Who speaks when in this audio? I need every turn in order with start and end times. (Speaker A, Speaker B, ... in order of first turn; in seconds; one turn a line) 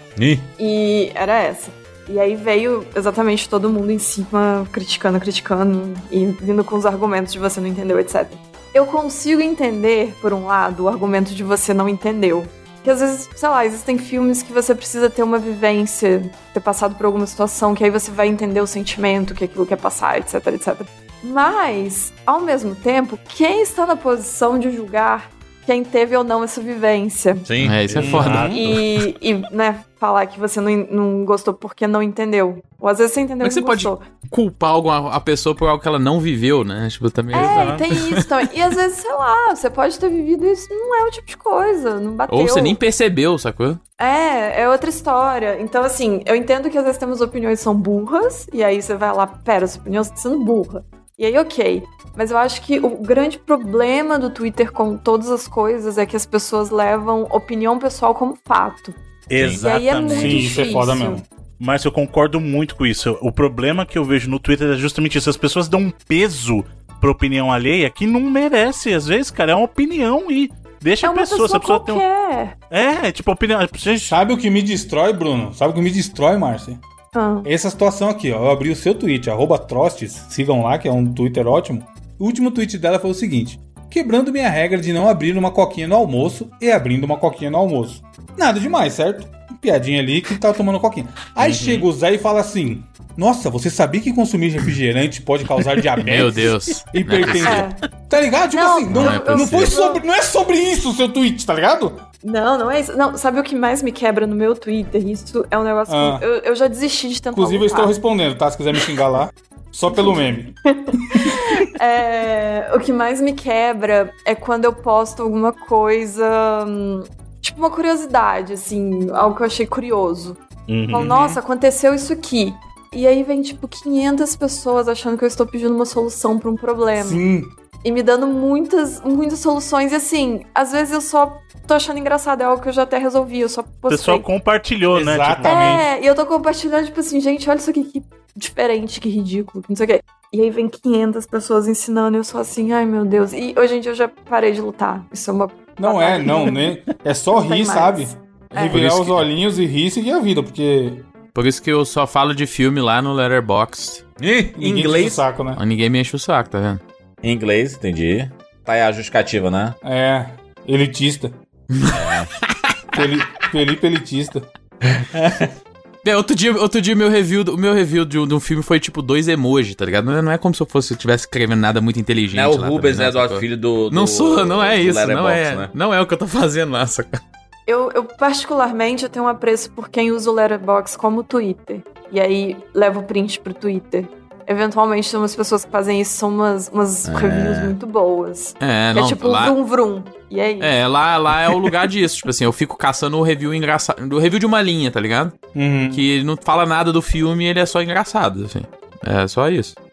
Speaker A: 0.2-0.5
Speaker B: 0.6-27.5
Speaker A: 27.5-28.1
Speaker C: 27.6-29.1
Speaker D: 27.9-28.6
Speaker E: 28.0-28.6
Speaker B: 28.5-34.0
Speaker C: 33.4-38.2
Speaker D: 37.3-37.9
Speaker B: 37.3-42.8
Speaker C: 42.3-43.8
Speaker B: 44.0-61.2
Speaker D: 59.3-60.9
Speaker E: 60.1-61.2
Speaker D: 61.6-72.0
Speaker B: 71.0-72.6
Speaker D: 72.7-74.2
Speaker E: 74.1-76.8
Speaker B: 77.1-77.5
Speaker E: 77.4-102.0
Speaker C: 91.4-91.9
Speaker C: 96.0-97.7
Speaker B: 97.4-97.8
Speaker B: 98.5-100.0
Speaker C: 98.9-99.7
Speaker B: 102.2-107.9
Speaker E: 105.9-106.3
Speaker E: 107.3-110.6
Speaker B: 110.7-127.2
Speaker E: 111.1-111.4
Speaker D: 120.7-121.3
Speaker E: 121.0-121.4
Speaker E: 127.0-127.5
Speaker B: 127.8-134.3
Speaker D: 133.9-135.8
Speaker E: 134.9-135.8
Speaker B: 135.4-146.7
Speaker E: 145.8-151.1
Speaker B: 147.3-148.8
Speaker C: 148.7-149.3
Speaker C: 151.3-154.0
Speaker A: 154.2-155.2
Speaker E: 154.6-155.6
Speaker C: 155.6-156.8
Speaker A: 157.2-159.8
Speaker E: 159.8-161.4
Speaker C: 161.7-162.1
Speaker A: 161.9-162.3
Speaker E: 162.9-164.5
Speaker A: 164.9-165.5
Speaker C: 166.0-177.2
Speaker A: 172.3-175.7
Speaker B: 177.7-190.7
Speaker A: 187.1-187.8
Speaker C: 188.6-189.6
Speaker C: 190.6-195.3
Speaker E: 195.6-196.1
Speaker C: 195.9-199.8